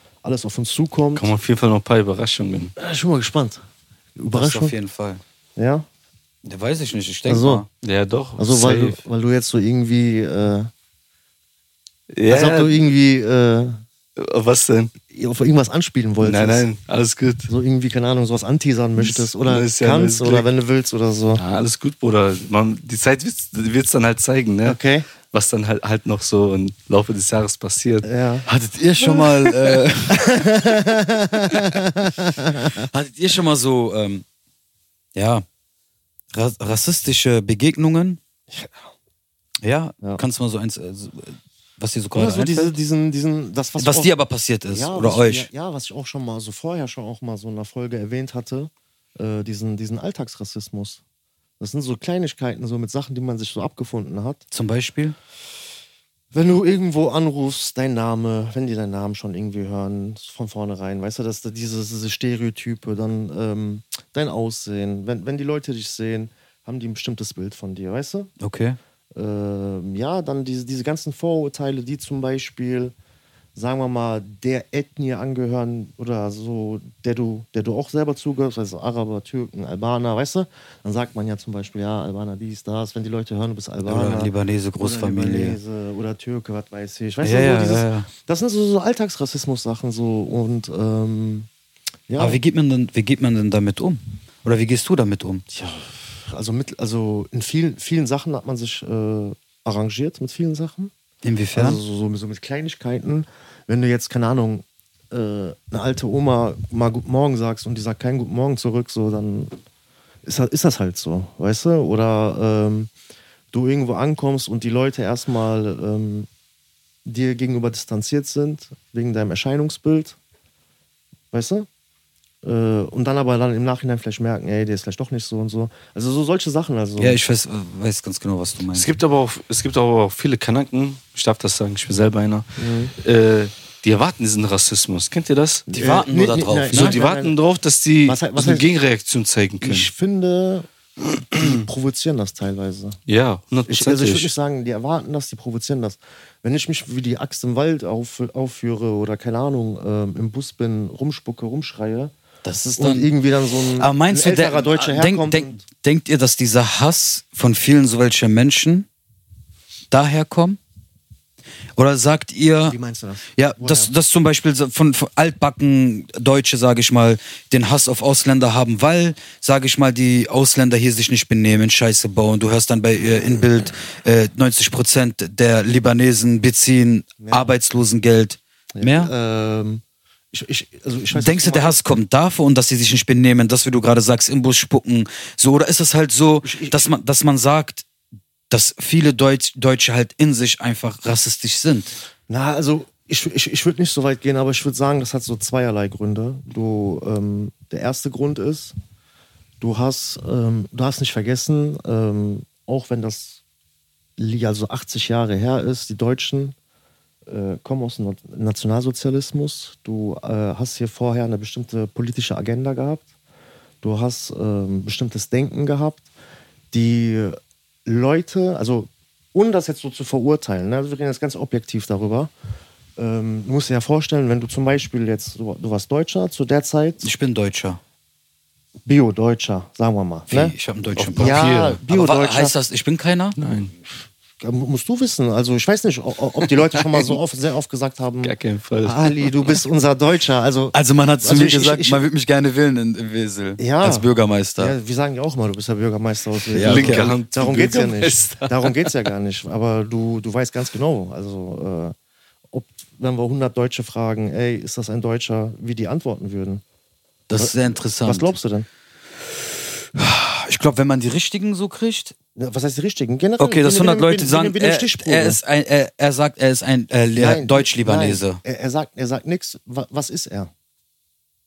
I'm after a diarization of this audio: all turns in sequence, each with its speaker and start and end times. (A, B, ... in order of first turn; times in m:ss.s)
0:00.2-0:01.3 A
0:01.1-0:02.7 B
0:02.8-0:03.6 A
0:04.2-0:04.7 A
0:04.3-0:05.2 C
0:05.6-0:05.8 A
0:06.4-0:07.7 C
0:07.3-0:07.6 A
0:07.8-0:09.0 B
0:08.4-0:10.7 A
0:12.1-0:12.7 B
0:12.3-0:13.7 A
0:14.2-0:14.9 B
0:15.1-0:16.6 A
0:16.2-0:17.5 B
0:17.5-0:21.4 A
0:19.0-0:20.5 B
0:21.4-0:28.1 B
0:24.6-0:25.1 A
0:28.0-0:28.5 A
0:28.4-0:30.5 C
0:29.1-0:29.5 B
0:30.1-0:32.9 A
0:32.8-0:34.2 C
0:35.1-0:35.4 C
0:36.3-0:38.2 C
0:38.5-0:38.9 A
0:39.6-0:42.8 C
0:42.1-0:44.1 A
0:43.8-0:45.5 C
0:44.7-0:51.0 A
0:51.6-0:54.4 A
0:54.5-0:55.2 C
0:56.3-1:08.3 A
1:08.4-1:08.8 C
1:09.1-1:12.9 A
1:13.5-1:31.5 A
1:23.8-1:25.6 C
1:27.2-1:28.1 C
1:32.1-1:32.4 A
1:32.2-1:35.4 C
1:35.5-1:40.9 A
1:41.2-1:41.8 C
1:41.5-1:49.6 A
1:50.2-1:52.9 A
1:53.5-1:56.3 A
1:57.0-2:00.2 A
2:01.3-2:01.7 A
2:02.4-2:07.2 A
2:07.0-2:08.9 C
2:08.7-2:15.7 B
2:12.6-2:12.9 A
2:15.7-2:17.4 A
2:15.7-2:17.0 C
2:16.7-2:19.9 B
2:18.0-2:18.7 A
2:19.6-2:23.0 A
2:23.1-2:24.3 B
2:23.7-2:32.1 A
2:32.4-2:33.1 C
2:32.8-2:35.6 A
2:33.8-2:38.9 C
2:39.9-2:40.6 C
2:41.8-2:42.8 C
2:42.7-2:43.9 A
2:43.4-2:59.1 C
2:57.2-2:57.5 A
2:58.7-3:01.8 A
3:01.1-3:07.8 C
3:06.4-3:06.8 A
3:08.5-3:11.9 C
3:12.3-3:18.7 A
3:19.6-3:23.4 A
3:24.2-3:26.6 A
3:27.2-3:33.1 A
3:33.8-3:36.1 A
3:36.7-3:42.3 A
3:43.0-3:47.1 A
3:47.0-3:47.8 C
3:48.8-3:50.6 A
3:50.3-3:53.4 C
3:51.0-3:51.8 B
3:51.2-3:52.5 A
3:53.4-3:53.7 B
3:54.4-4:02.0 A
3:56.8-3:57.1 B
3:58.2-3:59.5 B
4:00.7-4:04.8 C
4:03.6-4:11.9 A
4:06.5-4:07.1 C
4:06.6-4:08.9 B
4:12.5-4:16.6 A
4:17.3-4:18.4 C
4:17.4-4:18.7 A
4:19.9-4:22.1 C
4:22.4-4:25.4 A
4:23.4-4:28.4 C
4:27.1-4:30.5 A